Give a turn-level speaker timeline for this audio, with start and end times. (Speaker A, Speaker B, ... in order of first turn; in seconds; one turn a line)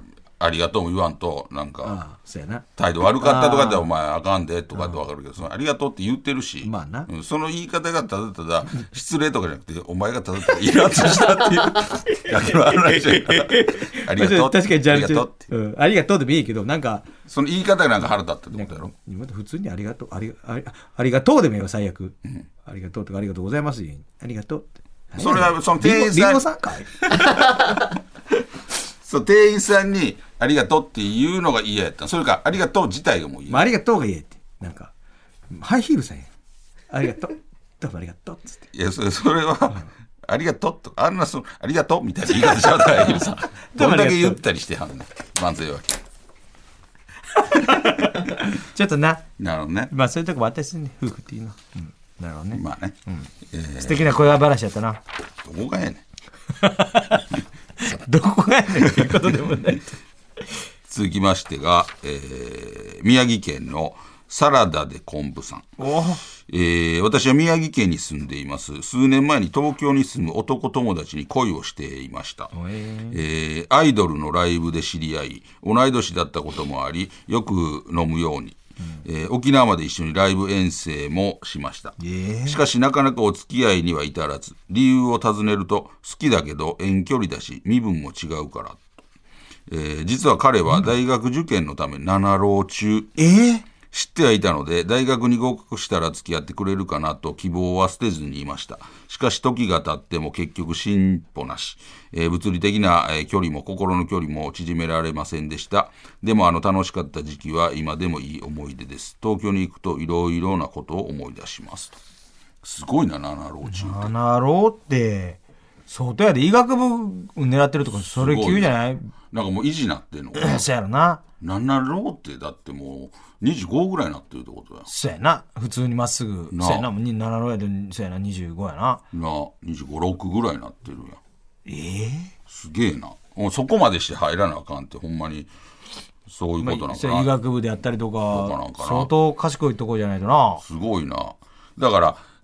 Speaker A: 0.4-2.0
Speaker B: 1.8-2.6
Speaker A: 2.8-15.5
Speaker B: 3.2-3.8
Speaker B: 6.6-7.1
Speaker B: 11.2-17.1
Speaker A: 17.2-18.9
Speaker B: 18.5-26.9
Speaker A: 25.2-26.5
Speaker A: 27.1-27.4
Speaker A: 29.0-33.7
Speaker B: 33.5-34.9
Speaker B: 35.5-36.3
Speaker B: 36.9-38.6
Speaker A: 38.7-46.0
Speaker B: 43.7-44.4
Speaker B: 47.4-49.2
Speaker A: 49.4-49.9
Speaker B: 49.9-55.0
Speaker A: 52.5-53.0
Speaker A: 53.5-54.2
Speaker A: 55.4-56.0
Speaker B: 56.6-59.9
Speaker A: 58.8-59.4
Speaker A: 60.9-65.7
Speaker B: 65.8-66.2
Speaker A: 66.4-72.5
Speaker B: 72.5-73.2
Speaker A: 73.1-88.9
Speaker B: 82.0-82.6
Speaker A: 89.7-93.1
Speaker B: 93.2-93.6
Speaker A: 93.9-112.0
Speaker A: 112.6-114.1
Speaker B: 113.6-119.1
Speaker A: 118.0-118.7
Speaker A: 119.3-120.7
Speaker B: 120.3-121.2
Speaker A: 121.4-124.9
Speaker B: 124.9-129.0
Speaker A: 126.5-126.9
Speaker A: 129.1-131.2
Speaker B: 131.7-132.3
Speaker A: 132.5-135.5
Speaker A: 136.3-137.3
Speaker B: 136.6-140.6
Speaker A: 138.3-139.1
Speaker A: 140.6-142.2